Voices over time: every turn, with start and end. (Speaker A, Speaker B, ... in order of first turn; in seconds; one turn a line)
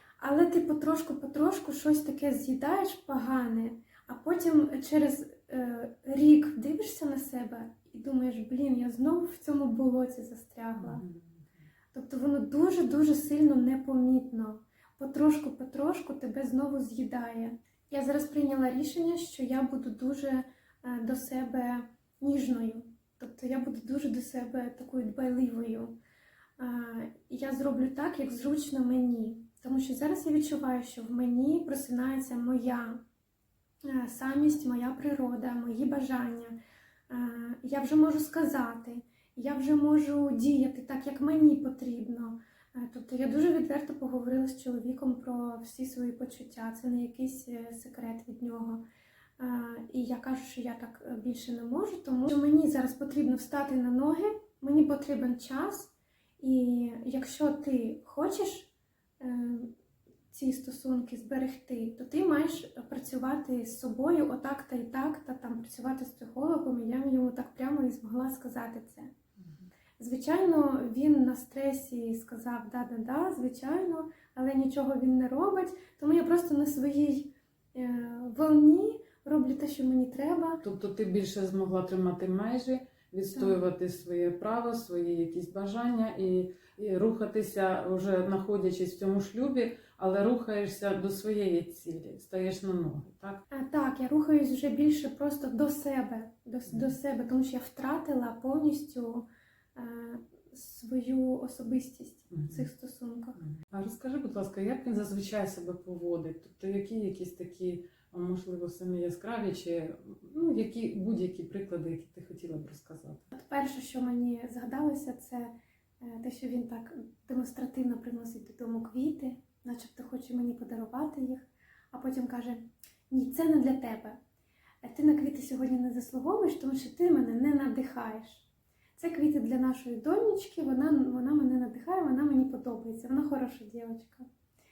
Speaker A: 0.2-11.0
Speaker B: 10.8-11.4
Speaker A: 11.9-25.9
Speaker A: 26.6-33.0
Speaker A: 33.8-36.6
Speaker A: 37.1-48.8
Speaker A: 49.4-59.7
Speaker A: 60.3-69.1
Speaker A: 70.0-80.6
Speaker B: 80.6-93.4
Speaker A: 83.3-83.6
Speaker A: 93.5-103.4
Speaker B: 102.4-102.6
Speaker B: 103.6-113.3
Speaker A: 113.3-124.2
Speaker A: 124.8-128.4
Speaker A: 129.0-134.3